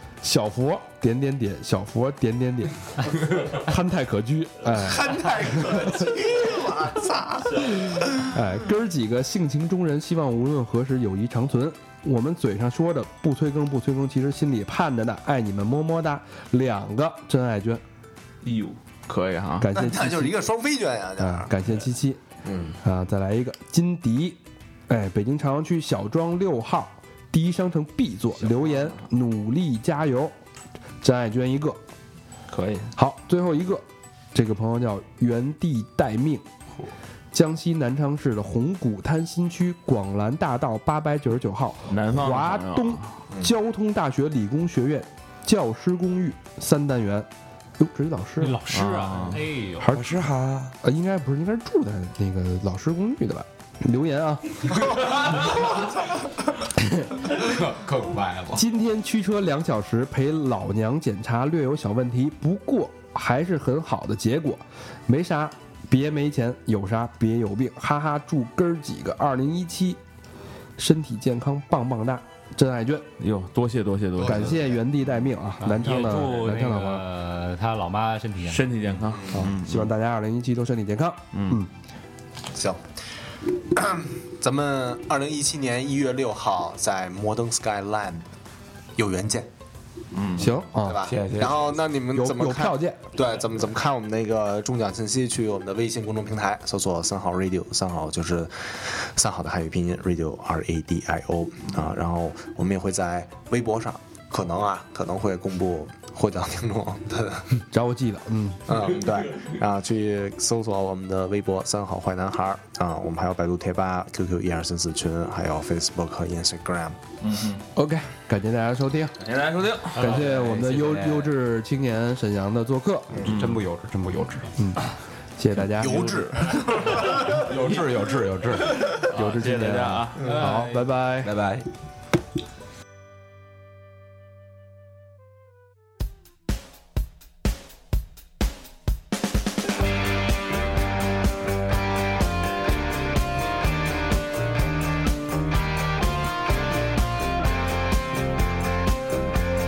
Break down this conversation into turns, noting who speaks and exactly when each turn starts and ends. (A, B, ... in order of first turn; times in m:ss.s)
0:00.2-0:05.9 A
0:04.7-0:08.3 B
0:08.1-0:17.8 A
0:18.4-0:19.7 C
0:19.6-0:20.4 A
0:19.7-0:21.5 B
0:21.2-0:22.2 A
0:22.4-0:22.8 B
0:22.8-0:30.3 A
0:28.4-0:29.0 C
0:31.0-0:31.8 A
0:32.5-0:32.9 C
0:33.0-0:36.4 A
0:37.3-0:48.6 A
0:41.9-0:43.1 C
0:48.4-0:50.0 D
0:48.7-0:49.4 C
0:49.8-0:50.1 A
0:49.9-0:50.7 E
0:50.8-0:55.0 A
0:54.8-0:55.9 E
0:56.8-0:57.1 A
0:57.3-0:58.6 E
0:58.5-1:10.0 A
1:10.8-1:13.1 A
1:13.2-1:14.6 C
1:14.2-1:14.8 B
1:14.2-1:17.0 A
1:15.6-1:18.6 D
1:18.5-1:19.9 C
1:19.0-1:19.5 B
1:19.3-1:21.7 A
1:21.3-1:21.6 C
1:22.5-1:22.8 B
1:23.7-1:28.3 B
1:29.0-1:29.5 B
1:30.1-1:30.5 C
1:30.4-1:31.1 A
1:30.8-1:47.5 B
1:31.1-1:31.6 E
1:32.1-1:33.0 A
1:47.7-1:48.7 A
1:48.7-1:57.0 B
1:57.2-1:57.6 C
1:57.7-1:59.2 A
1:59.2-2:00.2 C
1:59.9-2:03.2 A
2:00.0-2:01.3 E
2:03.2-2:04.5 E
2:03.2-2:03.6 C
2:04.6-2:04.8 A
2:05.4-2:06.2 A
2:05.7-2:07.1 C
2:05.8-2:07.4 B
2:07.2-2:08.8 E
2:08.9-2:10.3 C
2:09.1-2:11.3 A
2:10.2-2:10.9 D
2:11.2-2:11.7 E